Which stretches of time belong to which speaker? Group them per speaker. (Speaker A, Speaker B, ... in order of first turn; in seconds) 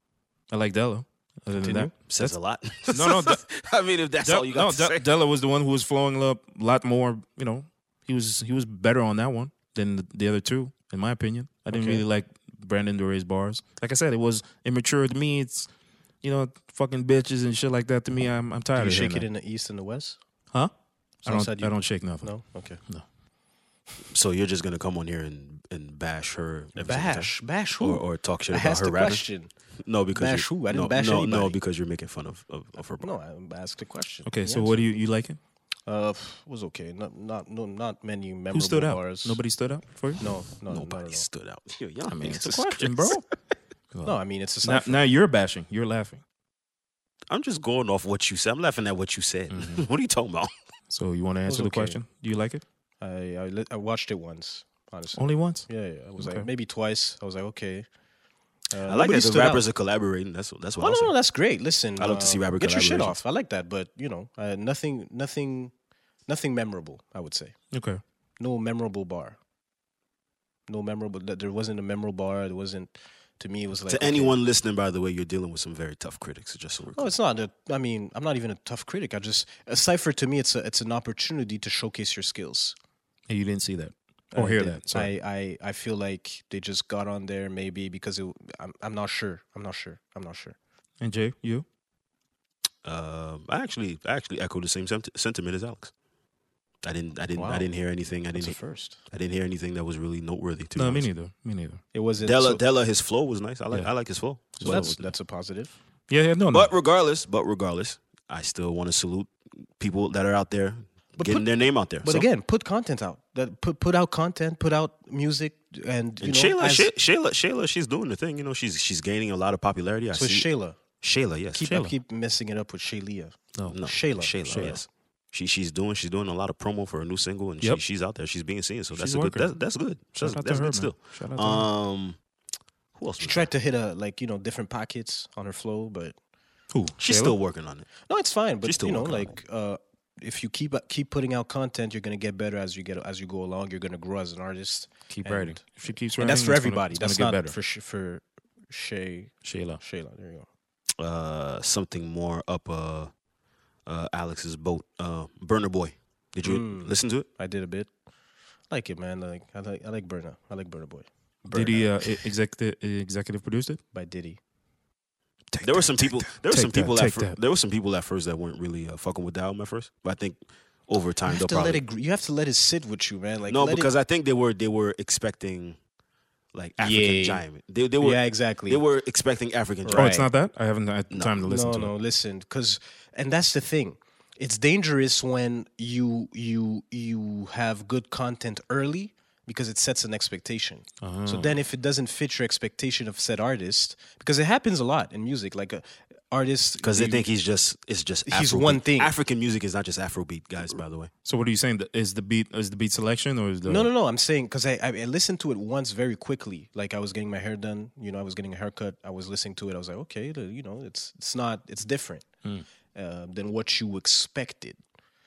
Speaker A: 0.5-2.4, 2.9-3.4, 4.2-15.7, 16.2-19.3, 21.2-22.3, 34.3-35.4, 38.5-40.2, 42.1-43.3, 43.9-46.2, 49.5-49.8, 50.9-52.6, 55.2-56.5, 67.7-68.0, 83.3-85.1, 91.0-91.7, 100.8-101.8, 104.5-105.1, 106.1-106.7, 121.7-122.0, 124.5-124.8, 128.9-129.6, 130.2-131.7, 136.7-137.3, 145.1-147.6, 149.4-149.8, 161.5-163.8, 165.5-167.4, 179.9-181.9, 191.0-191.6, 201.2-203.9
Speaker B: 1.5-1.9, 11.7-12.0, 18.8-20.2, 21.2-22.8, 26.8-29.5, 30.1-31.6, 33.0-34.8, 35.9-39.4, 40.2-41.2, 44.0-45.0, 51.5-52.0, 53.0-57.9, 58.7-59.6, 60.8-65.7, 66.3-67.5, 68.4-69.4, 70.7-74.4, 77.0-82.8, 84.3-90.6, 97.4-97.7, 98.3-99.0, 101.9-102.6, 104.6-105.7, 111.2-111.5, 112.0-116.9, 120.1-120.8, 121.5-124.8, 133.2-136.2, 138.1-150.5, 156.4-157.9, 158.7-162.2, 163.9-164.4, 171.3-173.9, 176.8-177.4, 178.0-178.8, 179.8-180.3, 181.4-197.2, 198.3-199.1, 203.7-212.3, 212.9-214.8
Speaker C: 2.1-5.1, 24.1-29.3, 29.8-33.1, 40.7-43.2, 47.3-50.5, 58.8-61.1, 62.0-63.2, 73.9-77.1, 92.8-95.9, 96.8-101.1, 102.2-105.0, 106.5-112.3, 116.2-120.5, 121.0-121.7, 123.7-132.2, 133.0-133.5, 137.0-137.9, 138.6-139.3, 151.0-153.1, 153.9-157.3, 165.6-171.8, 173.5-175.8, 176.5-180.1, 181.1-181.4, 196.8-201.1